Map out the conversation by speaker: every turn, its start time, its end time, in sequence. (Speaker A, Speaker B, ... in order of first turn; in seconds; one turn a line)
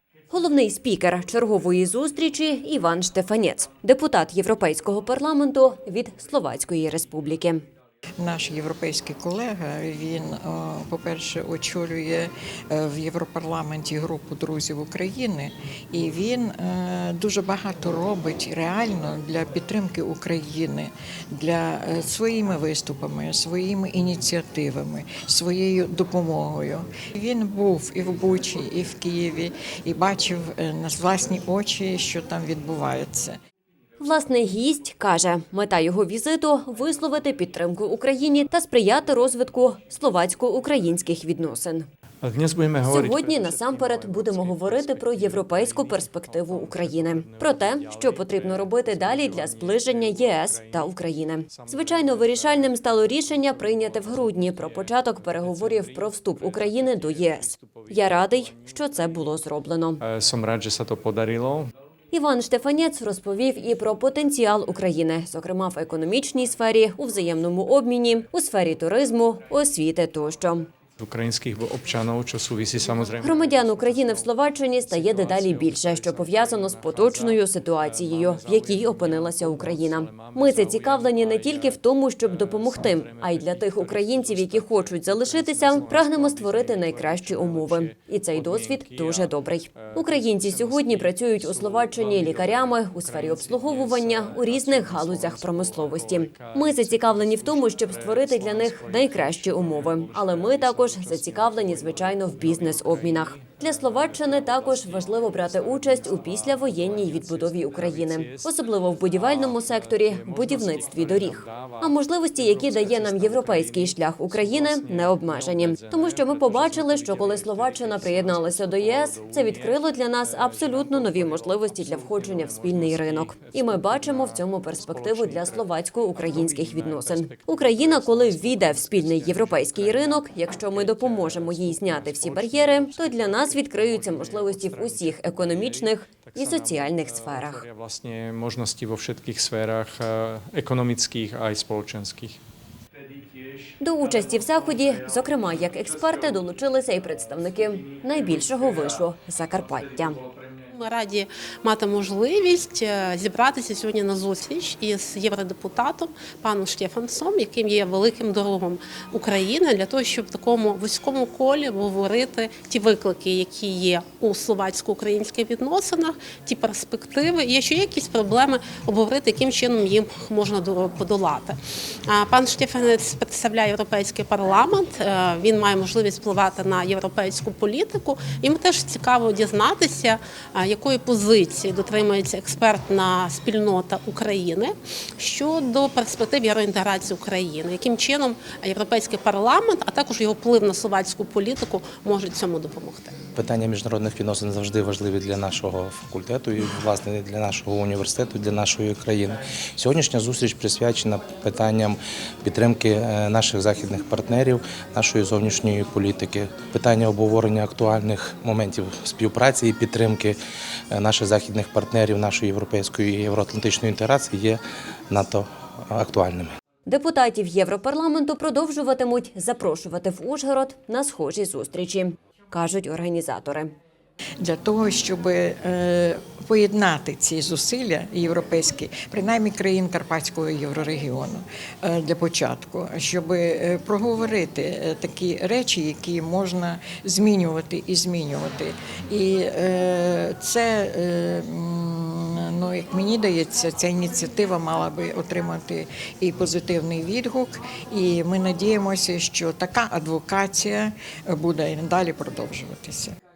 Speaker A: 0.3-7.6
Speaker B: 8.2-33.4
Speaker A: 34.0-41.9
Speaker C: 42.2-58.8
Speaker A: 42.8-60.0
Speaker C: 60.0-61.7
Speaker A: 62.1-70.7
Speaker C: 71.0-142.4
Speaker A: 73.2-137.6
Speaker C: 143.2-146.3
Speaker A: 143.8-150.2
Speaker C: 147.6-149.0
Speaker C: 149.7-150.5
Speaker D: 150.7-193.1
Speaker E: 193.3-210.4
Speaker E: 210.9-216.5
Speaker A: 216.9-223.7
Speaker B: 224.4-253.1